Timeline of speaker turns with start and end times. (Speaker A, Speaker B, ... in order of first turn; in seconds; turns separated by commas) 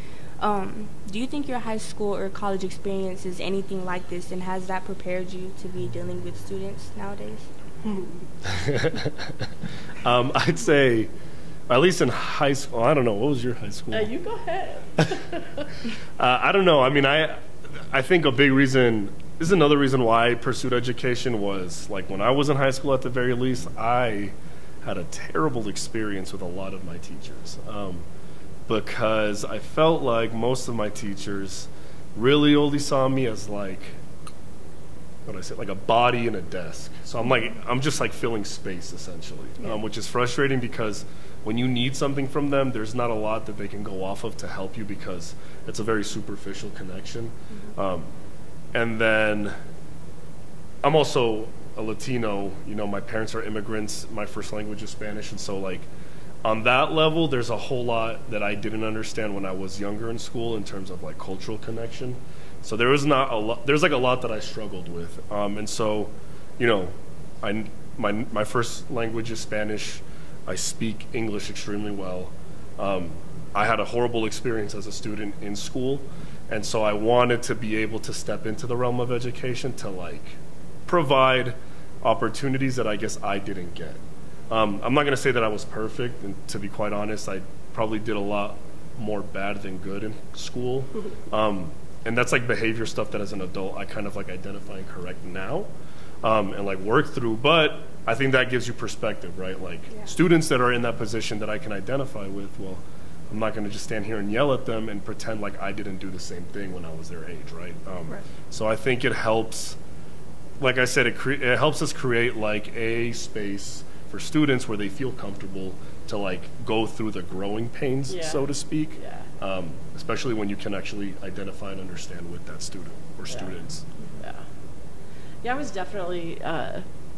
Speaker A: 0.4-7.5, Speaker B: 7.8-8.2, Speaker C: 8.5-9.5, Speaker C: 10.0-11.1, Speaker C: 11.7-14.1, Speaker B: 13.9-15.7, Speaker C: 16.2-28.0, Speaker C: 28.7-34.0, Speaker C: 35.3-48.1, Speaker C: 48.7-49.5, Speaker C: 50.8-55.9, Speaker C: 56.4-84.0, Speaker C: 84.5-95.7, Speaker C: 96.2-109.8, Speaker C: 110.6-123.8, Speaker B: 118.1-119.3, Speaker B: 123.3-123.6, Speaker B: 124.2-124.5, Speaker B: 125.4-126.8